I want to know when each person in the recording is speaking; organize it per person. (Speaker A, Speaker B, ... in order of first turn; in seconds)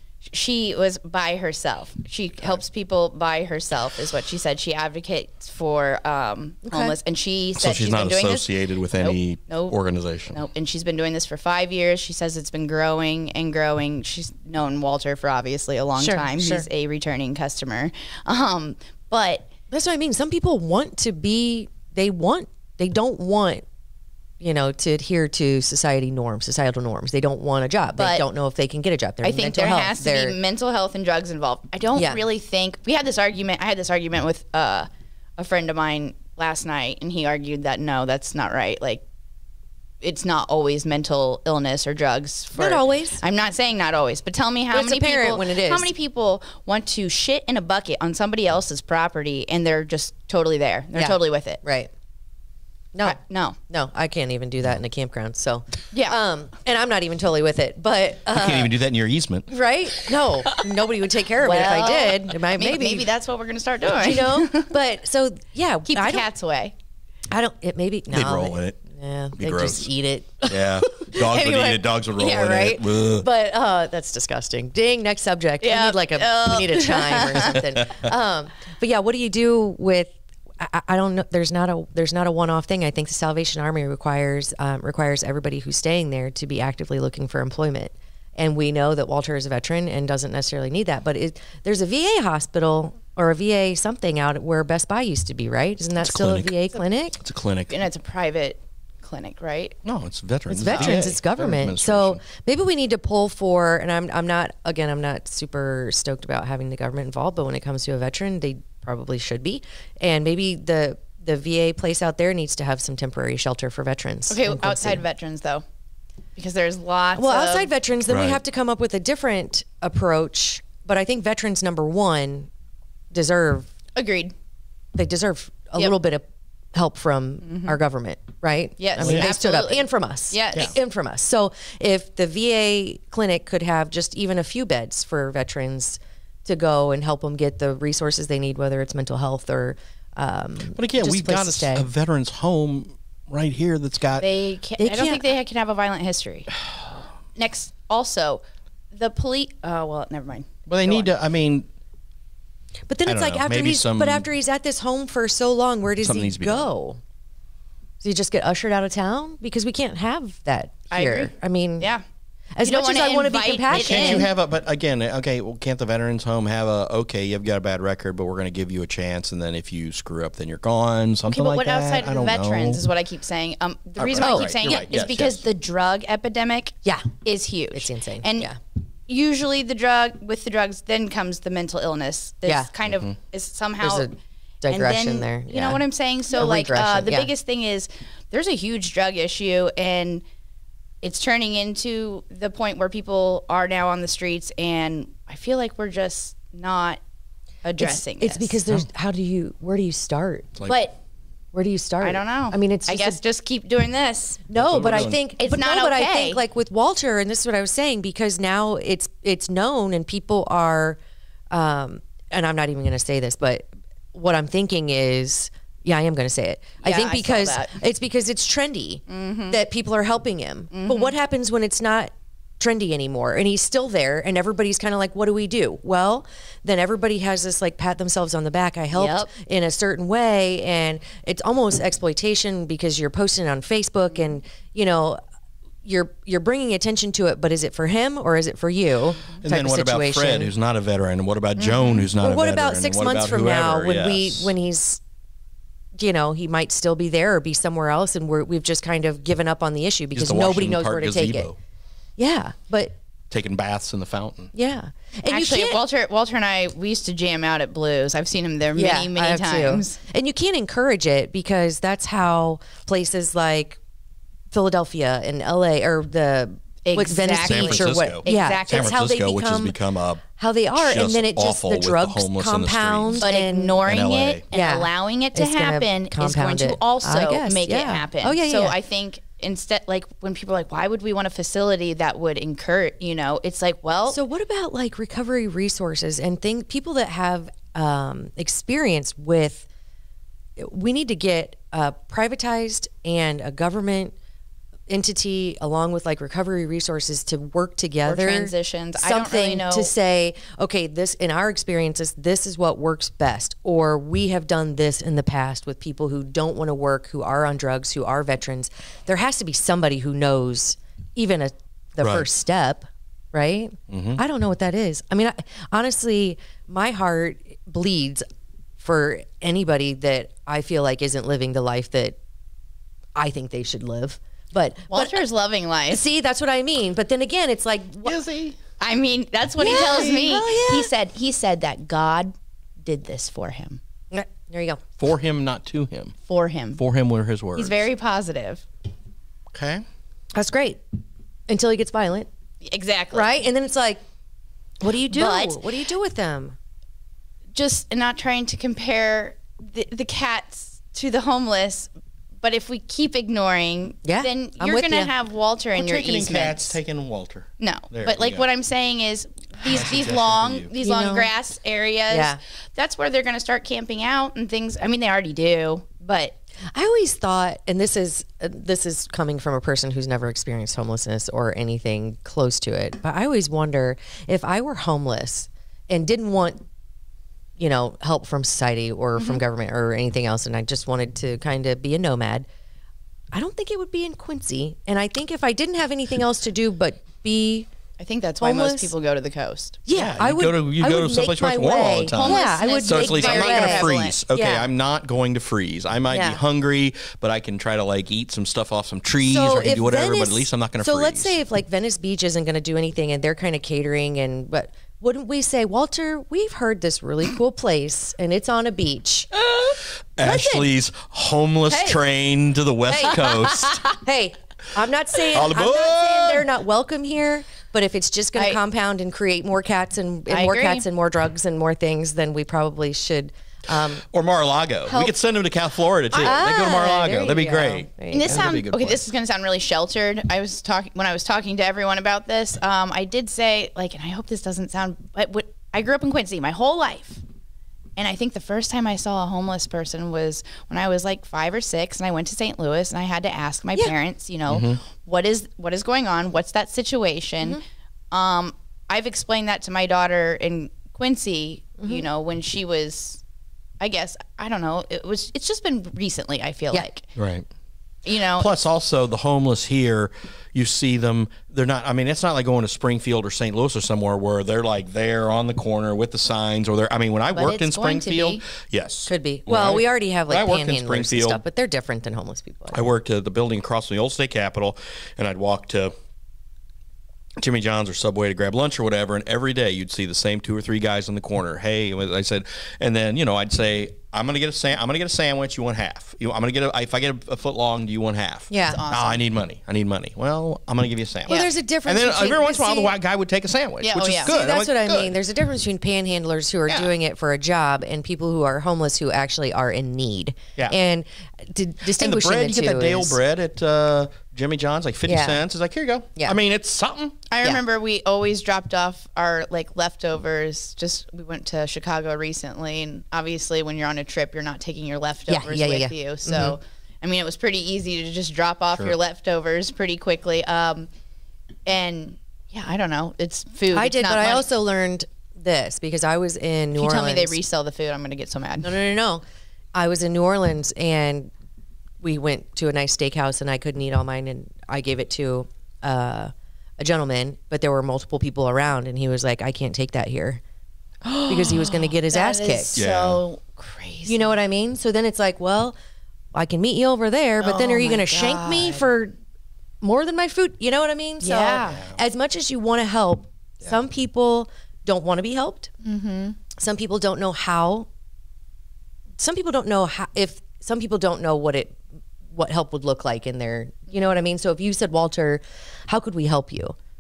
Speaker A: 0.3-9.7, 10.3-19.5, 27.9-28.3, 29.2-39.0, 40.0-51.6, 53.0-53.6, 55.9-56.2, 61.4-64.7, 65.8-66.7, 71.1-71.8, 75.6-77.6, 97.7-99.8, 100.7-101.0, 114.3-115.6, 116.3-117.7, 124.0-124.3, 127.4-127.8, 128.8-130.7, 144.2-146.5, 147.3-148.4, 148.9-151.1, 160.9-162.0, 162.6-164.3, 171.3-178.5, 179.1-184.1, 184.7-190.2, 191.0-197.0, 197.6-198.6, 200.6-201.0, 202.0-204.4, 205.4-206.4, 216.8-217.8, 219.1-219.6, 220.7-221.1, 228.9-229.3, 241.6-242.0, 255.3-260.0, 266.8-269.1, 273.1-284.2, 298.0-299.9, 324.9-326.0, 328.8-333.8, 336.3-336.8, 337.6-338.6, 342.6-343.3, 345.1-345.6, 347.5-351.9, 352.4-356.8, 357.6-366.4, 388.0-389.8, 392.1-394.2, 413.0-414.0, 420.3-420.8, 428.1-437.2, 438.0-447.6, 448.1-453.2, 453.8-457.0, 458.0-458.5, 467.3-468.4, 488.6-489.2, 493.8-494.4, 507.3-520.9, 521.6-524.4, 526.7-528.7, 541.0-544.4, 547.4-548.8, 551.2-551.8, 555.8-556.4
Speaker B: 6.6-7.0, 16.0-16.7, 19.7-23.6, 24.4-30.4, 31.9-32.2, 42.5-43.2, 44.7-45.9, 50.9-51.9, 52.9-58.7, 59.5-63.1, 64.0-66.3, 67.3-70.6, 72.2-97.2, 100.5-115.0, 117.1-122.5, 123.1-123.7, 124.9-141.9, 144.8-145.2, 152.9-157.0, 158.0-161.9, 162.5-164.3, 174.1-174.5, 177.7-178.6, 183.8-187.3, 197.8-200.6, 201.5-203.2, 204.5-211.0, 211.5-235.2, 235.8-240.5, 242.2-245.0, 245.9-251.5, 252.2-252.9, 254.5-255.8, 258.7-263.8, 264.5-269.8, 270.4-273.8, 274.5-278.8, 284.1-289.7, 290.6-294.1, 294.9-318.2, 318.8-322.2, 323.1-325.2, 325.9-328.2, 329.6-330.9, 334.1-334.8, 340.3-340.8, 341.5-342.3, 343.1-344.0, 344.8-346.6, 354.0-355.1, 360.8-361.3, 362.1-362.4, 366.7-376.6, 377.6-382.5, 383.3-387.7, 388.4-388.9, 389.9-394.7, 396.1-396.4, 399.2-409.3, 410.2-410.6, 413.9-424.0, 424.9-425.1, 426.2-428.5, 469.1-472.8, 488.5-488.8, 491.3-492.9, 494.2-503.2, 505.1-505.4, 515.3-516.6, 523.7-527.4, 528.6-529.2, 529.7-531.3, 532.0-540.4, 541.2-542.7, 544.0-545.8, 546.3-549.1, 549.8-555.7, 556.5-557.9, 559.2-561.8, 562.3-566.8
Speaker C: 7.6-10.4, 58.3-59.5, 68.1-68.8, 69.3-69.9, 70.4-73.3, 77.6-78.0, 96.0-96.6, 97.1-97.8, 99.8-102.2, 118.1-118.4, 129.0-129.3, 140.7-144.2, 150.7-151.7, 153.1-154.3, 156.0-156.7, 163.7-172.8, 174.0-175.4, 182.8-183.1, 204.6-205.2, 239.4-244.5, 250.1-251.6, 253.3-254.5, 267.4-273.3, 273.9-274.4, 312.0-312.2, 313.9-314.2, 328.0-328.6, 329.7-330.0, 335.0-336.1, 336.8-337.9, 339.5-339.8, 355.7-358.4, 359.6-360.7, 389.9-401.4, 410.2-413.8, 415.3-416.5, 424.1-429.1, 444.5-444.8, 457.1-457.4, 458.4-471.4, 472.7-475.9, 477.4-495.1, 502.0-507.2, 542.8-543.2